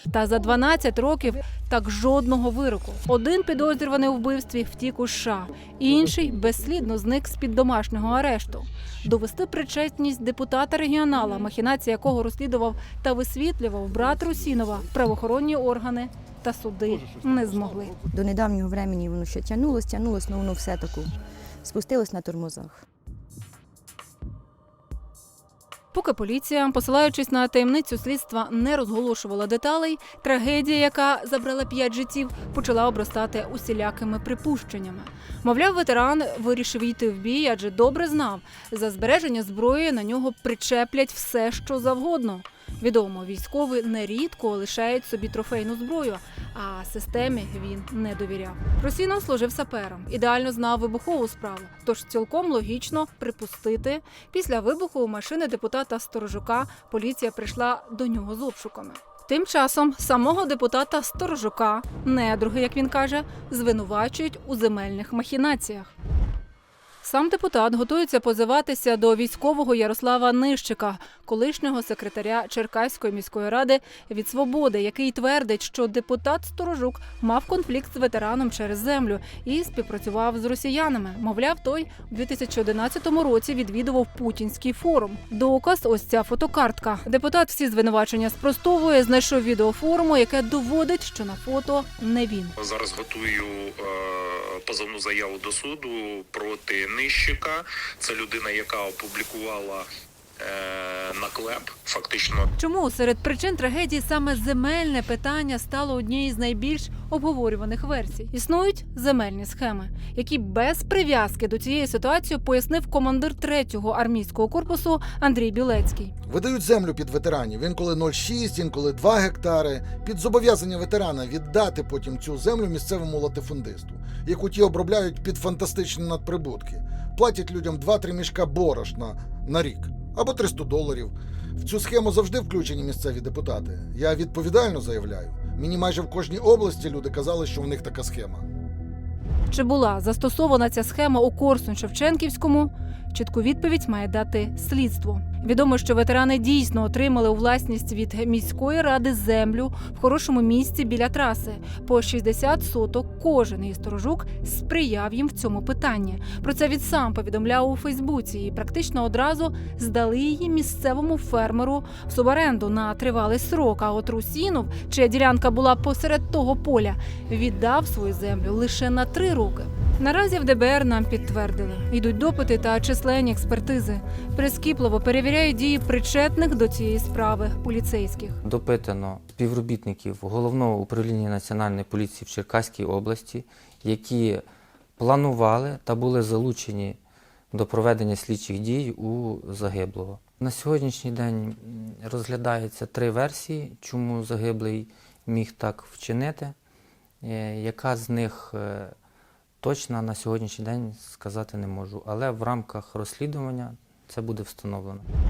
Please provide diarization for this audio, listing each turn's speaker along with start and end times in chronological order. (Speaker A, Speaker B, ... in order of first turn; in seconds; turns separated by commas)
Speaker A: 0.1-17.9, Speaker B: 18.1-21.1, Speaker B: 21.6-22.8, Speaker A: 25.9-65.9, Speaker A: 67.0-92.5, Speaker C: 92.7-99.8, Speaker C: 100.5-102.4, Speaker A: 102.6-116.1, Speaker D: 116.2-138.4, Speaker A: 139.5-178.4, Speaker E: 178.4-184.4, Speaker E: 185.0-187.0, Speaker E: 187.5-196.5, Speaker E: 197.2-198.9, Speaker E: 199.6-205.0